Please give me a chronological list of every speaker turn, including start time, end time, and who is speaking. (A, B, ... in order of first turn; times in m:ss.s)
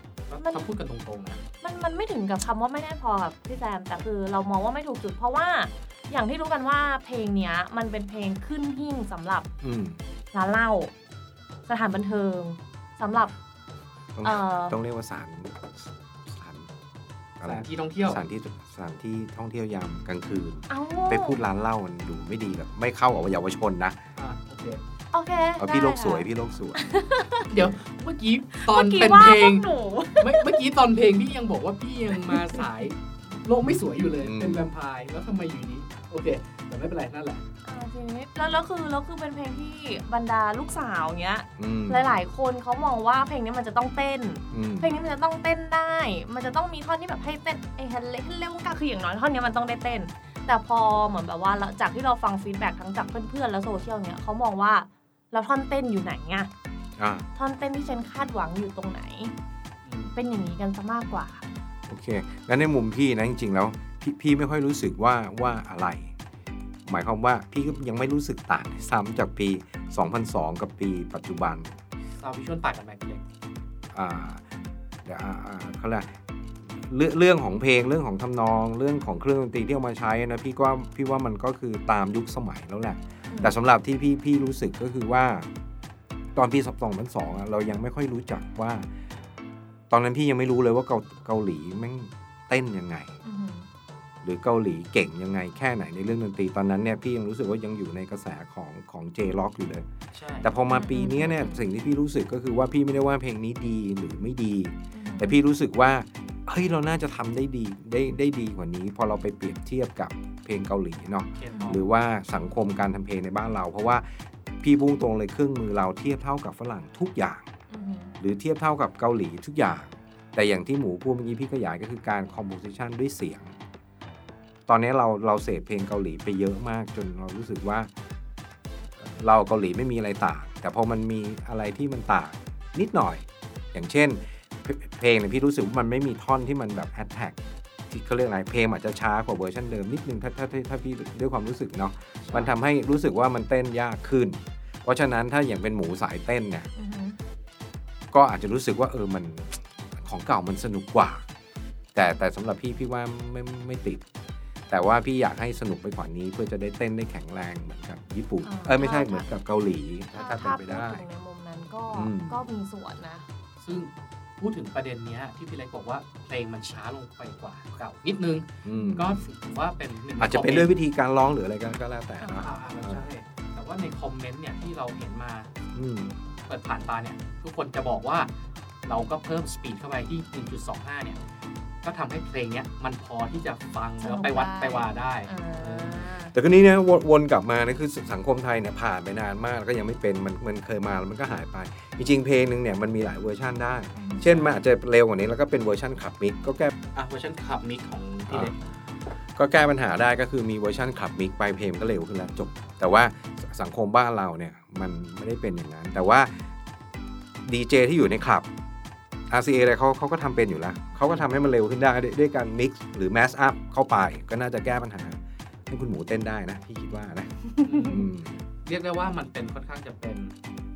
0:00.3-0:01.4 A
0:00.4-0:00.7 B
0:01.6-0:09.5 B
0:09.6-0:10.0 C
0:10.3-0:10.9 B
0:11.6-0:13.3 B
0:14.1-0:16.7 C
0:14.2-0:14.8 B
0:17.4-0:24.0 C
0:17.4-0:18.2 A
0:20.7-0:21.4 B
0:24.2-0:24.8 A
0:25.1-0:27.5 B
0:25.6-0:26.8 C
0:27.5-0:37.4 A
0:28.6-0:30.6 B
0:33.6-0:34.6 C
0:37.6-0:56.5 B
0:41.6-0:42.1 C
0:44.5-0:44.9 C
0:57.0-0:57.2 C
0:57.4-0:59.3 B
0:59.8-1:00.1 A
1:00.1-1:01.4 B
1:01.9-1:06.1 C
1:06.8-1:11.7 C
1:12.2-1:13.2 A
1:13.9-1:14.4 C
1:15.0-1:25.5 C
1:23.3-1:23.6 B
1:26.3-1:28.9 C
1:29.9-1:33.1 C
1:33.2-1:33.7 B
1:34.2-1:39.9 C
1:40.1-1:40.5 A
1:40.4-1:57.4 C
1:40.7-1:41.6 B
1:44.9-1:45.4 B
1:51.3-1:51.8 A
1:51.5-1:51.8 B
1:57.7-1:58.1 B
1:58.2-2:03.6 C
2:04.7-2:07.9 C
2:09.0-2:17.4 C
2:17.9-2:26.7 C
2:22.2-2:22.5 A
2:26.8-2:27.2 B
2:28.1-2:31.2 C
2:31.9-2:34.0 C
2:34.7-2:41.0 C
2:38.4-2:39.3 B
2:40.1-2:43.3 B
2:41.9-2:42.4 C
2:43.6-2:50.7 A
2:48.6-2:49.2 C
2:48.7-2:49.0 B
2:50.2-2:53.0 C
2:52.2-2:52.5 B
2:52.4-2:55.5 A
2:55.7-2:56.1 C
2:56.5-2:58.3 A
2:58.8-3:01.2 A
3:01.8-3:06.1 A
3:04.0-3:06.3 B
3:06.3-3:16.7 C
3:13.9-3:14.3 B
3:14.2-3:14.6 A
3:16.9-3:18.6 A
3:18.3-3:18.5 C
3:19.3-3:26.4 C
3:27.4-3:28.5 C
3:29.3-3:38.4 C
3:37.6-3:38.1 A
3:37.7-3:38.0 B
3:38.6-3:40.3 A